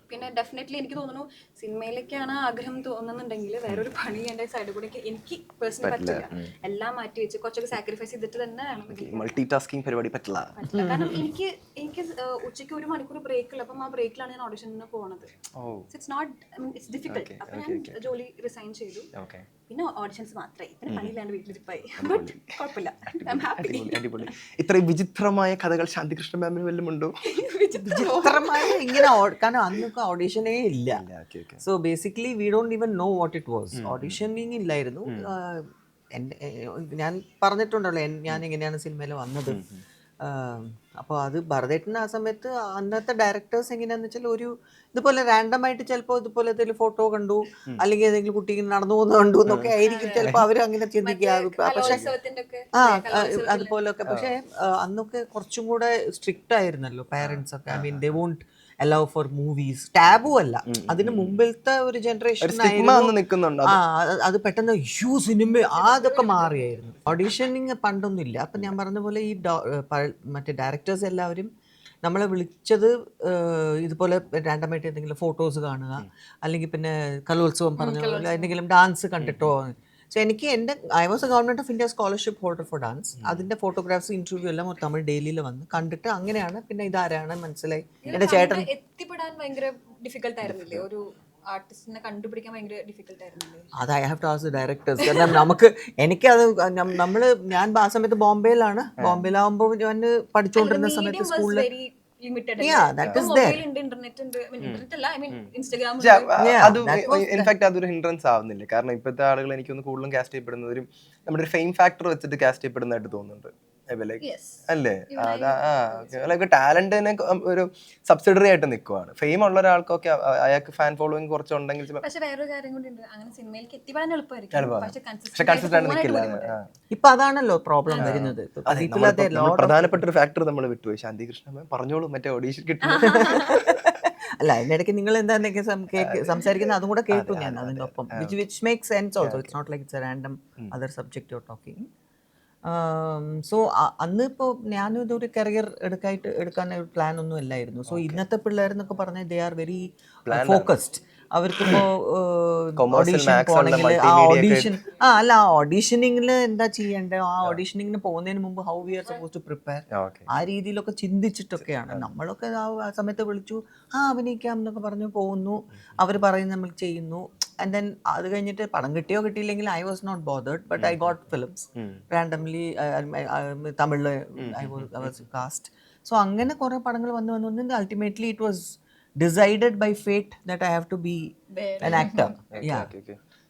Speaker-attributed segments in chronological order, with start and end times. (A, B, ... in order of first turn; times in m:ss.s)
0:00.1-0:09.4 A
0:05.8-0:06.5 B
0:08.9-0:10.6 B
0:10.5-0:15.3 A
0:10.7-0:11.2 C
0:15.6-0:15.9 B
0:15.9-0:19.1 A
0:17.1-0:18.1 B
0:19.1-0:19.5 B
0:19.7-0:24.3 A
0:22.0-0:22.6 B
0:23.2-0:27.2 B
0:27.3-0:29.1 A
0:27.8-0:31.0 C
0:30.9-0:31.6 B
0:31.6-0:39.6 C
0:33.8-0:34.2 B
0:39.5-0:39.8 B
0:40.2-0:52.0 C
0:49.5-0:50.4 B
0:49.8-0:50.4 A
0:51.0-0:53.8 A
0:51.8-0:52.1 B
0:52.8-1:11.5 C
0:57.2-0:58.1 B
1:00.7-1:01.4 B
1:02.4-1:03.8 B
1:05.7-1:06.6 A
1:12.0-1:28.7 C
1:17.8-1:18.5 A
1:19.2-1:19.5 B
1:23.2-1:23.5 B
1:28.0-1:33.7 A
1:30.4-1:30.8 B
1:33.8-1:41.7 C
1:35.0-1:35.4 A
1:40.6-1:46.3 A
1:42.6-1:43.6 C
1:44.6-1:45.5 B
1:46.0-2:02.0 B
1:46.4-1:47.5 C
1:54.2-1:56.4 A
2:02.0-2:06.5 A
2:04.5-2:06.6 B
2:06.9-2:10.0 C
2:07.9-2:08.2 A
2:08.0-2:14.0 B
2:12.8-2:13.6 A
2:13.1-2:21.8 C
2:16.0-2:18.4 B
2:19.2-2:19.5 B
2:22.7-3:02.9 C
2:27.9-2:28.2 B
2:30.3-2:30.7 B
2:32.8-2:34.8 B
2:39.9-2:40.3 B
2:50.8-2:51.0 B
2:51.8-2:52.0 B
2:54.4-2:55.2 B
3:01.5-3:02.3 A
3:01.8-3:03.2 B